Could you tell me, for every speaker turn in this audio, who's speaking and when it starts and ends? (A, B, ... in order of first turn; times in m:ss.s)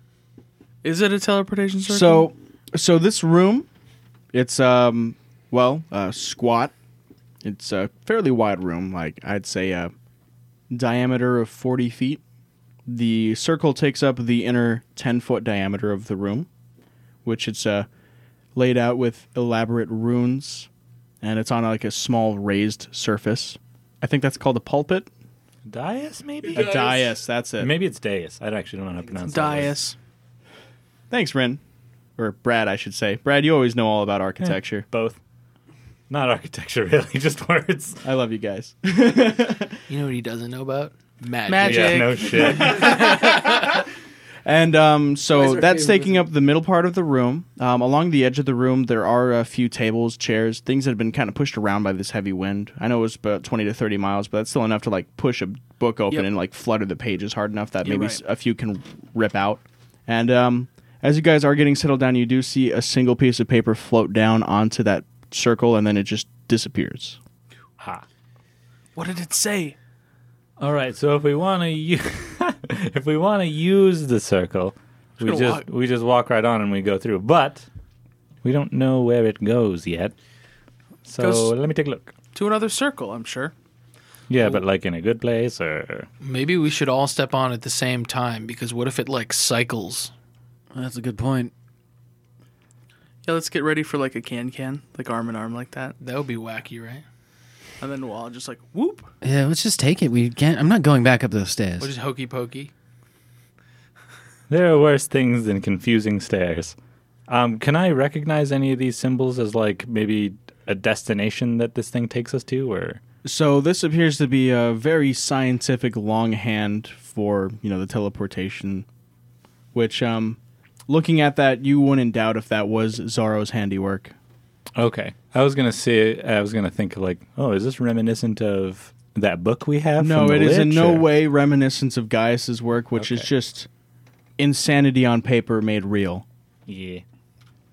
0:00.8-0:02.3 A
0:01.9-0:03.7 B
0:04.3-0:06.7 B
0:07.4-0:09.9 B
0:10.7-0:12.2 B
0:12.9-0:16.5 B
0:17.2-0:17.9 B
0:18.6-0:20.7 B
0:21.2-0:25.1 B
0:25.6-0:27.0 C
0:26.5-0:27.7 B
0:27.6-0:29.8 C
0:29.3-0:30.0 A
0:31.1-0:31.6 B
0:32.2-0:34.9 B
0:34.8-0:35.2 C
0:36.1-0:38.0 C
0:38.0-0:39.8 B
0:39.9-0:43.8 D
0:41.5-0:43.0 A
0:41.6-0:43.2 C
0:44.4-1:07.2 B
0:45.3-0:46.2 E
0:57.8-0:58.2 A
1:07.8-1:08.0 C
1:09.0-1:09.8 A
1:10.6-1:17.7 C
1:15.2-1:15.6 A
1:18.4-1:20.1 C
1:21.0-1:22.1 C
1:21.2-1:21.5 A
1:22.3-1:23.5 A
1:24.3-1:26.1 C
1:26.2-1:30.1 D
1:30.7-1:31.5 E
1:33.2-1:36.0 A
1:36.0-1:37.0 D
1:37.8-1:39.1 A
1:39.2-1:41.9 E
1:41.8-1:42.7 D
1:44.5-1:46.8 C
1:47.3-1:53.0 C
1:53.2-1:58.9 B
1:59.7-2:04.1 B
2:04.8-2:11.1 C
2:10.0-2:13.7 B
2:13.0-2:13.3 C
2:14.4-2:16.2 B
2:16.7-2:17.0 C